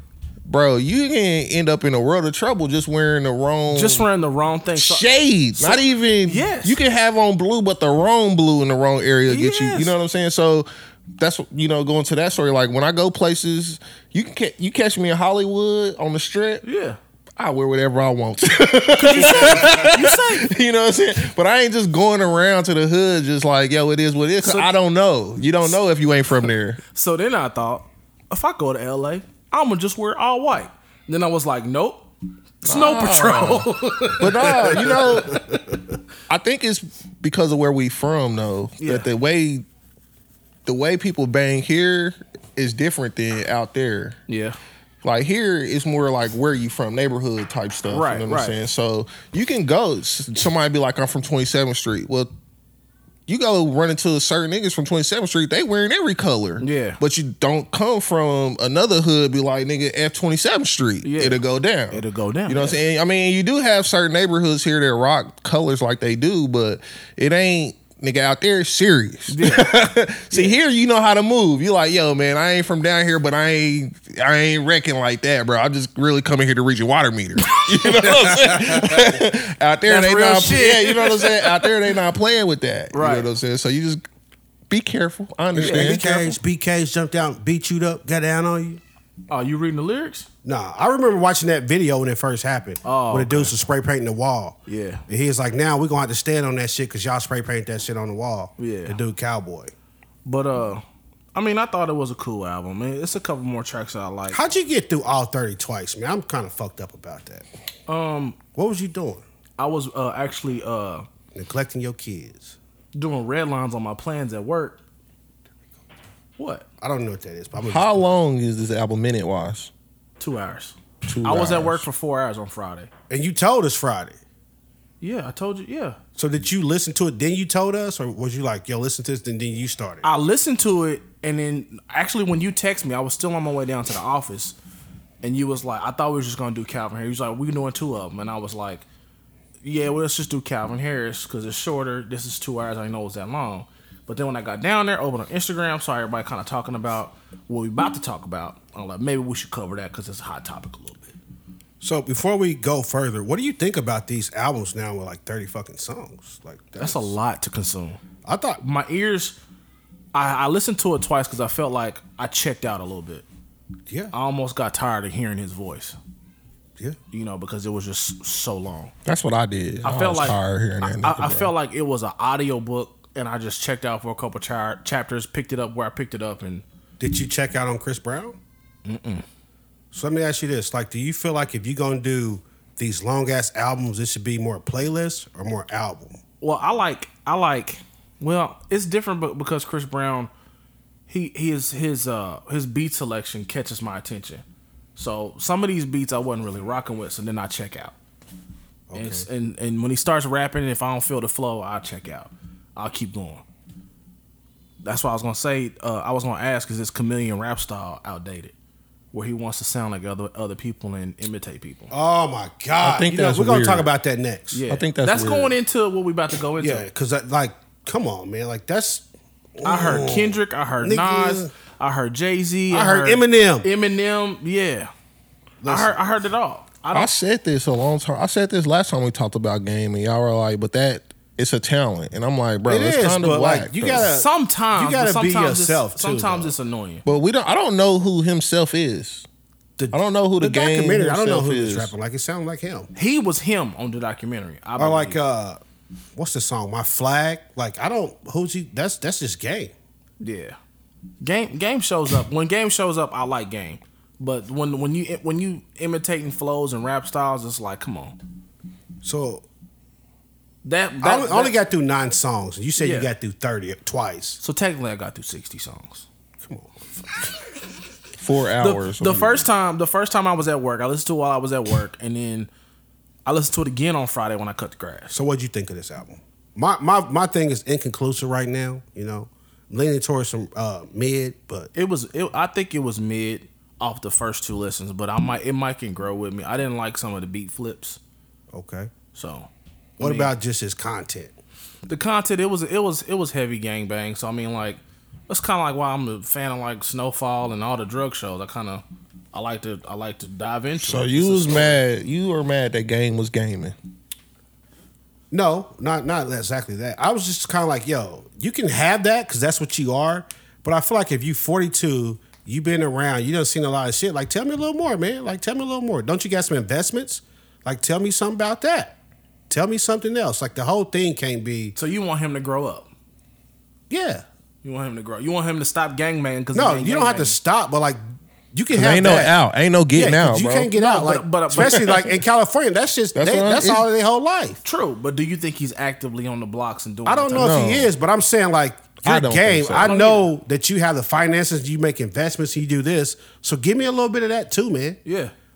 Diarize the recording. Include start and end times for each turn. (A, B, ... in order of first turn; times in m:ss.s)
0:00.4-0:04.0 A
0:03.7-0:06.8 B
0:04.8-0:16.6 A
0:09.3-0:09.9 B
0:16.6-0:17.0 B
0:17.4-0:26.8 A
0:18.9-0:20.5 B
0:24.4-0:24.7 B
0:26.9-0:32.1 B
0:32.6-0:35.4 B
0:32.6-0:35.4 A
0:34.9-0:35.6 C
0:36.3-0:39.6 A
0:38.8-0:39.1 B
0:40.6-0:44.2 A
0:44.3-0:44.6 B
0:45.0-0:52.3 A
0:47.9-0:48.6 B
0:53.3-1:24.0 A
0:56.6-0:57.0 B
1:01.0-1:02.8 B
1:09.3-1:09.7 B
1:19.9-1:21.7 B
1:22.9-1:23.3 B
1:24.7-1:26.4 A
1:25.5-1:28.8 C
1:25.6-1:26.1 B
1:29.3-1:30.3 B
1:30.4-1:39.7 C
1:32.8-1:33.5 B
1:34.7-1:35.0 B
1:38.6-1:39.0 B
1:40.2-1:44.4 B
1:44.3-1:47.4 C
1:47.9-1:48.4 B
1:48.5-1:49.2 C
1:49.6-1:51.0 B
1:51.3-1:52.6 C
1:52.9-1:54.8 B
1:56.4-1:56.6 B
1:56.8-1:58.1 C
1:57.6-1:59.7 A
2:00.2-2:02.9 B
2:01.0-2:01.9 A
2:03.1-2:04.2 C
2:05.0-2:06.0 B
2:06.2-2:10.0 C
2:10.0-2:14.6 B
2:15.2-2:18.8 B
2:19.6-2:31.1 B
2:31.8-2:37.1 C
2:36.8-2:38.0 B
2:38.2-2:38.6 C
2:38.6-2:39.4 B
2:40.1-2:43.2 B
2:44.1-2:46.0 B
2:47.1-2:48.9 B
2:49.0-2:51.5 A
2:49.8-2:56.6 B
2:57.0-2:58.4 C
2:58.8-2:59.2 B
2:59.9-3:06.2 C
3:06.4-3:10.3 B
3:11.1-3:14.4 B
3:15.0-3:17.9 B
3:18.9-3:19.2 C
3:18.9-3:23.4 B
3:24.8-3:28.5 B
3:29.1-3:31.9 B
3:31.9-3:34.6 C
3:32.8-3:33.9 A
3:34.5-3:36.8 B
3:34.7-3:35.6 A
3:36.6-3:39.0 C
3:39.6-3:41.5 C
3:39.6-3:44.9 B
3:42.7-3:43.7 C
3:45.6-3:46.0 C
3:45.6-3:47.1 B
3:46.9-3:54.1 A
3:52.7-3:56.5 C
3:53.9-3:57.0 B
3:57.0-3:59.2 A
3:59.8-4:02.9 C
3:59.9-4:01.9 A
4:02.9-4:05.2 B
4:04.8-4:05.6 C
4:06.1-4:09.7 C
4:10.2-4:10.6 B
4:11.2-4:18.2 B
4:19.0-4:19.4 C
4:20.6-4:21.5 B
4:21.0-4:24.4 C
4:22.8-4:23.1 B
4:24.4-4:26.0 B
4:26.4-4:27.4 C
4:28.2-4:29.5 A
4:28.6-4:32.5 B
4:33.2-4:35.2 B
4:35.1-4:41.7 C
4:41.7-4:48.0 B
4:48.5-4:48.9 C
4:49.1-4:49.5 B
4:50.0-4:51.3 C
4:50.0-4:50.3 B
4:51.9-5:01.8 B
5:00.8-5:03.7 A
5:05.3-5:19.0 C
5:19.5-5:21.7 C
5:21.8-5:22.9 B
5:23.9-5:24.2 C
5:24.6-5:27.4 B
5:26.5-5:28.0 C
5:28.5-5:29.3 C
5:28.7-5:30.7 A
5:29.9-5:34.6 C
5:30.8-5:31.9 B
5:31.6-5:32.0 A
5:33.1-5:33.9 A
5:34.6-5:37.5 B
5:37.0-5:45.0 C
5:37.4-5:37.9 A
5:39.0-5:40.0 A
5:39.8-5:40.3 B
5:45.0-5:45.3 B